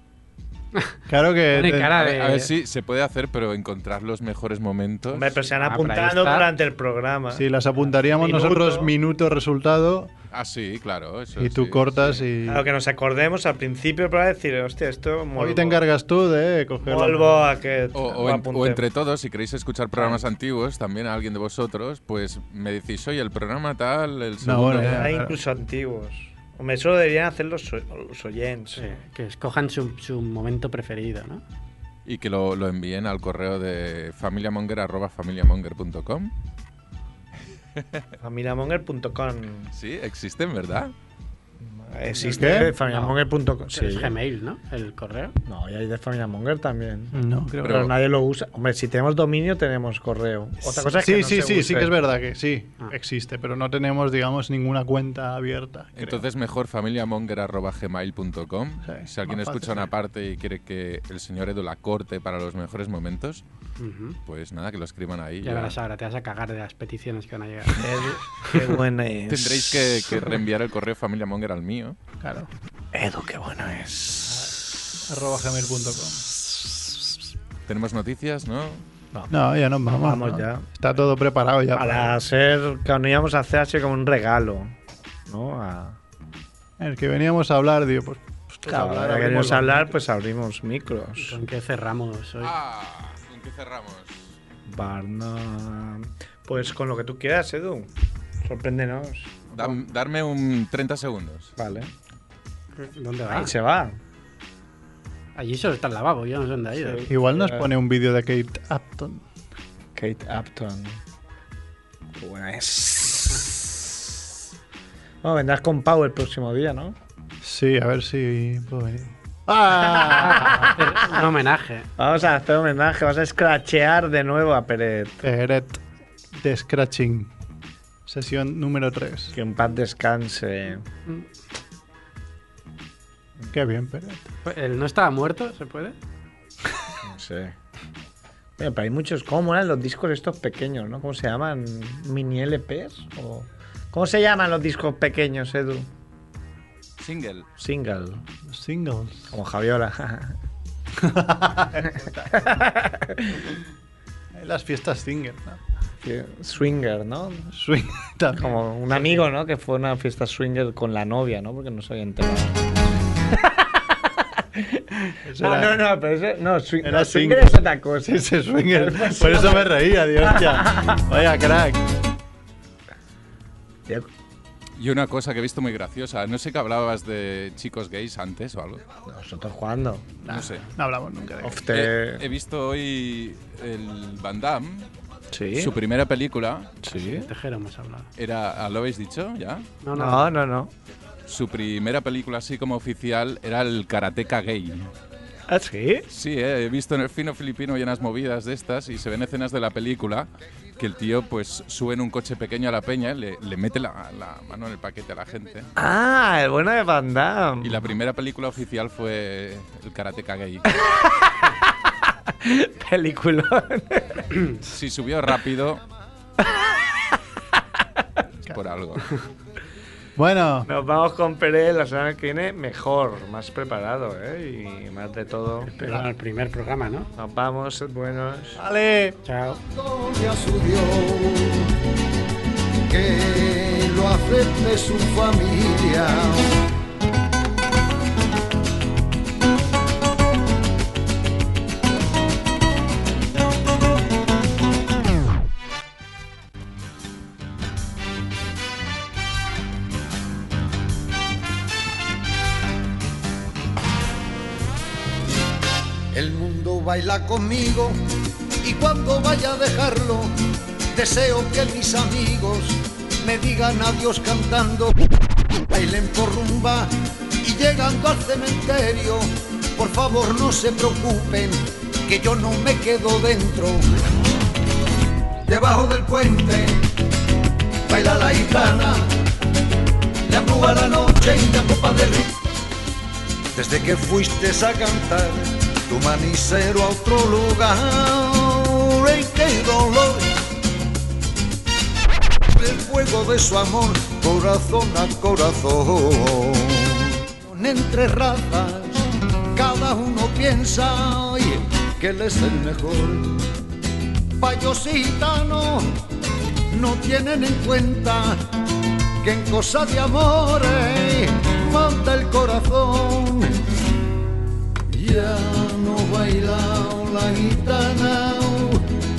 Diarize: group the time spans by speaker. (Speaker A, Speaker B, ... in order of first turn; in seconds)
Speaker A: 1.1-1.9, 7.3-10.1, 11.4-12.7, 15.3-17.5, 24.4-25.4, 42.4-42.7, 47.1-47.9, 50.7-56.2, 58.8-59.9, 72.2-72.5, 74.2-76.2, 79.3-82.1, 86.8-90.0, 107.1-109.2, 117.4-120.7, 125.2-125.8, 126.3-127.3, 128.1-129.3, 133.5-134.3, 148.5-149.3, 150.9-152.6, 154.3-155.6, 157.5-158.6, 165.2-165.8, 166.8-171.8, 180.2-181.7, 220.2-220.7, 225.8-226.1, 228.6-229.2
Speaker B: 1.5-2.5, 5.5-6.5, 28.8-31.4, 42.3-43.2, 43.7-45.4, 63.8-64.2, 65.4-67.9, 91.2-92.5, 102.7-103.5, 105.3-107.1, 120.0-121.9, 134.4-135.9, 186.9-188.1, 189.8-190.2, 225.8-227.1, 229.2-229.6
Speaker C: 1.9-5.4, 10.3-12.2, 17.9-25.1, 32.0-36.3, 39.7-40.9, 47.6-47.9, 56.0-63.4, 64.2-65.8, 69.3-72.0, 77.7-78.8, 92.4-94.3, 99.5-101.5, 147.0-147.5, 174.8-178.8, 180.3-180.6, 181.7-184.9, 185.5-186.7, 188.2-189.7, 191.2-194.9, 196.1-205.7, 207.6-210.7, 214.6-215.8, 218.4-219.1
Speaker D: 5.1-7.5, 8.2-8.9, 12.4-15.8, 16.8-18.8, 24.7-28.9, 38.2-39.7, 41.6-44.1, 45.5-51.9, 67.8-70.3, 72.9-74.6, 76.5-77.0, 80.0-80.7, 81.7-84.7, 85.3-86.0, 88.7-91.4, 94.7-97.9, 98.4-99.8, 101.6-101.9, 103.2-104.0, 106.7-107.7, 110.0-111.0, 112.2-114.0, 115.2-117.0, 120.0-120.7, 122.0-125.2, 129.3-130.8, 137.0-137.5, 138.6-145.9, 147.6-148.2, 149.3-150.4, 152.3-153.5, 156.0-157.5, 158.4-162.6, 163.3-171.1, 179.1-180.1, 181.4-182.2, 185.3-185.7, 186.8-187.3, 189.9-190.7, 195.5-196.1, 205.8-207.9, 210.8-211.7, 212.3-214.4, 220.7-225.7, 227.2-228.6
Speaker E: 229.5-231.7, 232.9-236.5, 256.1-258.0, 258.6-260.3, 260.9-265.0, 265.7-273.9, 275.4-276.8, 277.9-279.1, 280.3-282.3, 283.5-290.3, 292.5-303.4, 304.4-305.9, 306.7-308.4, 309.2-313.6, 314.9-318.9